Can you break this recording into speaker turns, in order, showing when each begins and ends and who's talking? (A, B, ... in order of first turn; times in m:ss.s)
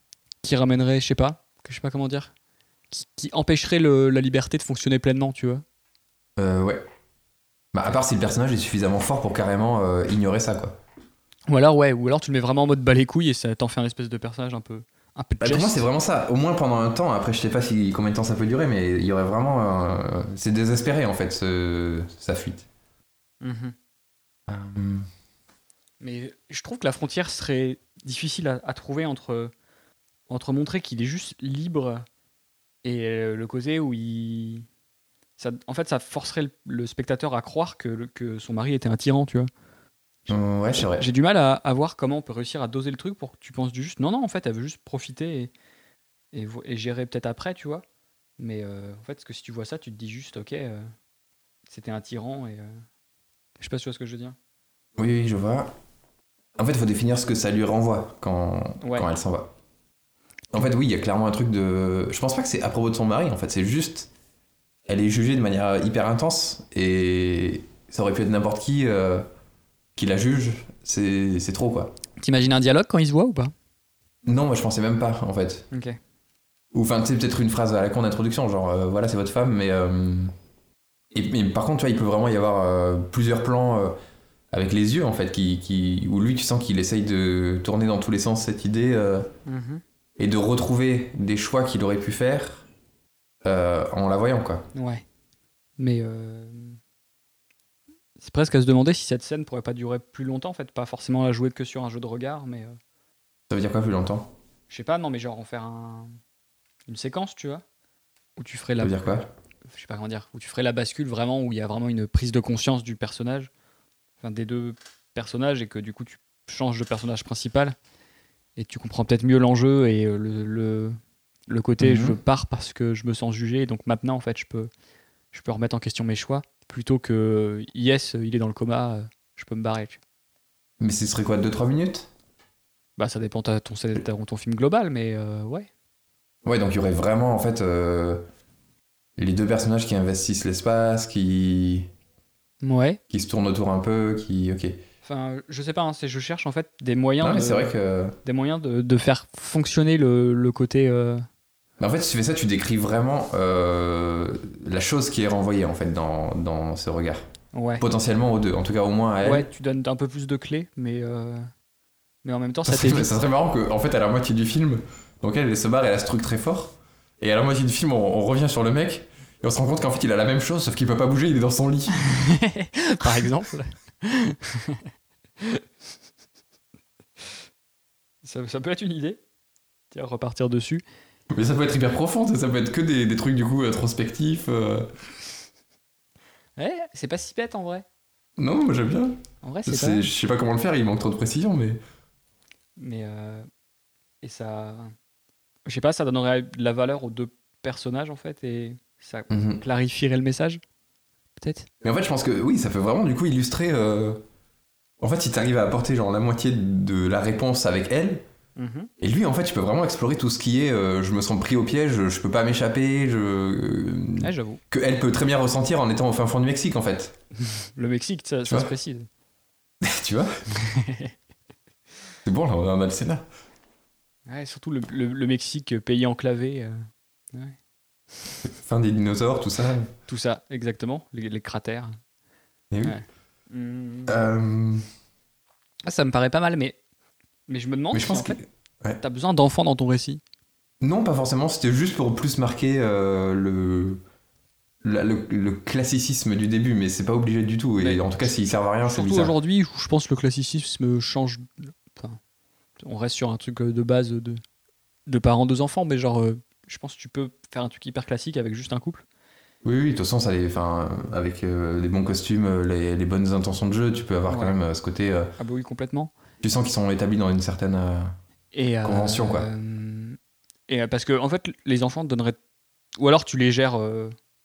0:00.4-0:02.3 A
0:02.9-0:05.6 A
0:06.4-0:06.8 B
0:07.7-0:10.8 B
0:11.5-0:15.9 A
0:15.4-0:22.7 B
0:23.4-0:23.8 A
0:24.5-0:25.1 B
0:26.0-0:29.5 A
0:30.3-0:32.0 A
0:32.8-0:34.7 A
0:35.4-0:39.5 A
0:40.3-0:41.1 B
0:40.3-0:45.5 A
0:46.3-0:47.8 A
0:48.4-0:50.9 A
0:51.7-0:52.8 A
0:53.6-0:54.4 A
0:55.0-0:55.7 B
0:56.6-0:59.5 B
0:58.8-0:59.1 A
1:00.5-1:04.1 B
1:04.9-1:09.3 B
1:10.0-1:11.9 B
1:12.2-1:13.5 A
1:14.3-1:15.7 B
1:15.7-1:16.0 A
1:16.7-1:20.3 B
1:21.1-1:24.0 B
1:24.5-1:29.3 B
1:29.5-1:29.8 A
1:30.2-1:32.7 B
1:33.4-1:34.6 B
1:34.8-1:35.0 A
1:35.8-1:36.8 A
1:38.2-1:42.8 A
1:43.5-1:44.3 B
1:44.7-1:46.2 A
1:46.9-1:47.6 A
1:48.4-1:49.2 A
1:48.8-1:49.3 B
1:49.7-1:53.5 A
1:54.2-1:57.8 A
1:58.6-2:01.0 A
2:01.5-2:04.7 A
2:01.8-2:02.2 B
2:05.3-2:10.0 A
2:10.8-2:12.1 B
2:13.0-2:15.7 A
2:16.4-2:18.2 B
2:19.2-2:21.9 B
2:22.6-2:23.0 A
2:23.1-2:24.8 B
2:25.0-2:27.7 A
2:27.2-2:28.2 B
2:28.2-2:31.3 A
2:31.8-2:37.3 B
2:37.5-2:37.9 A
2:37.8-2:39.5 B
2:39.2-2:41.5 A
2:42.2-2:43.1 A
2:42.7-2:52.1 B
2:51.9-2:54.9 A
2:58.2-2:59.2 A
2:59.9-3:00.8 A
3:01.3-3:05.0 B
3:06.6-3:07.8 A
3:08.4-3:11.8 B
3:09.4-3:10.1 A
3:12.8-3:13.5 A
3:14.2-3:15.0 A
3:15.7-3:20.6 A
3:19.3-3:19.6 B
3:21.4-3:21.7 A
3:21.8-3:24.2 B
3:25.0-3:28.2 B
3:28.6-3:28.9 A
3:29.0-3:37.2 B
3:34.2-3:34.6 A
3:37.4-3:39.1 A
3:39.8-3:40.4 B
3:40.5-3:41.1 A
3:42.2-3:43.2 B
3:44.3-3:47.6 A
3:48.4-3:49.9 B
3:50.1-3:52.0 A
3:52.7-3:53.0 B
3:52.8-3:54.2 A
3:54.1-3:54.8 B
3:55.8-3:56.8 A
3:57.5-3:58.4 A
3:57.9-3:59.0 B
3:59.0-4:00.2 A
4:00.8-4:04.0 B
4:04.8-4:09.3 B
4:07.8-4:12.2 A
4:12.8-4:14.4 A
4:15.1-4:19.0 A
4:19.6-4:25.3 B
4:24.3-4:24.6 A
4:25.4-4:26.1 A
4:26.4-4:28.1 B
4:28.5-4:32.4 A
4:28.8-4:29.5 B
4:33.0-4:34.2 A